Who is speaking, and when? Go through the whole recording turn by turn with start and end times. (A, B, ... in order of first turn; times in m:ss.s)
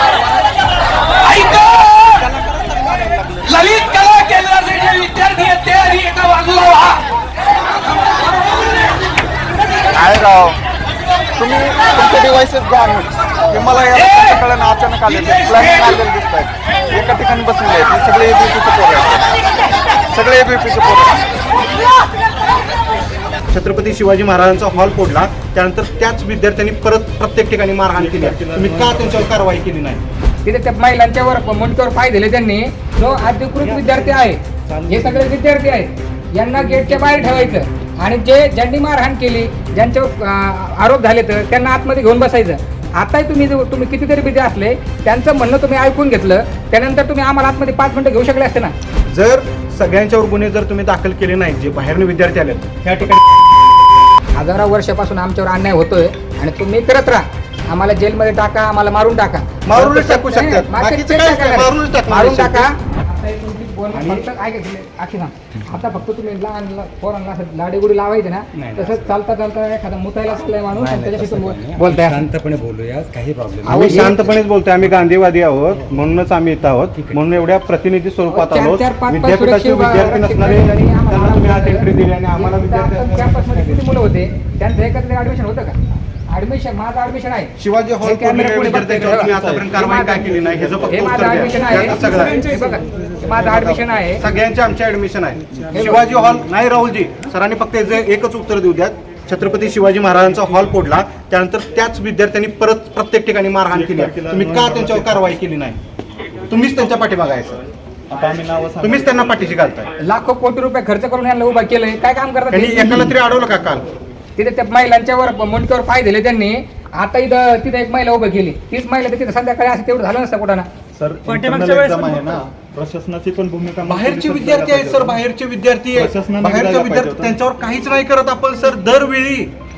0:02.1-0:04.1 A
0:04.4-0:06.7 B
0:09.9-0:10.6 A
0:11.4-0:19.4 A
0:20.0-0:21.2 A
0:23.5-0:30.0 C
0:28.0-0:29.4 A
0:30.4-0:48.7 D
0:49.1-0:53.2 C
0:54.4-1:12.3 D
0:59.6-1:02.7 C
1:04.0-1:04.3 C
1:08.6-1:09.1 E
1:10.7-1:14.0 E
1:13.6-1:14.4 D
1:13.7-1:23.9 C
1:18.3-1:25.8 D
1:26.3-1:29.3 D
1:27.6-1:32.5 C
1:28.8-1:29.8 A
1:29.9-1:30.3 D
1:30.9-1:34.2 D
1:31.6-1:32.7 B
1:34.2-1:45.8 C
1:35.7-1:36.0 D
1:43.7-1:45.3 A
1:46.5-1:47.6 C
1:48.1-1:49.3 A
1:48.8-1:49.9 C
1:50.0-1:53.1 D
1:52.5-1:53.9 C
1:54.4-2:00.7 D
2:01.0-2:05.2 A
2:01.3-2:02.4 B
2:03.8-2:09.5 C
2:05.9-2:07.4 A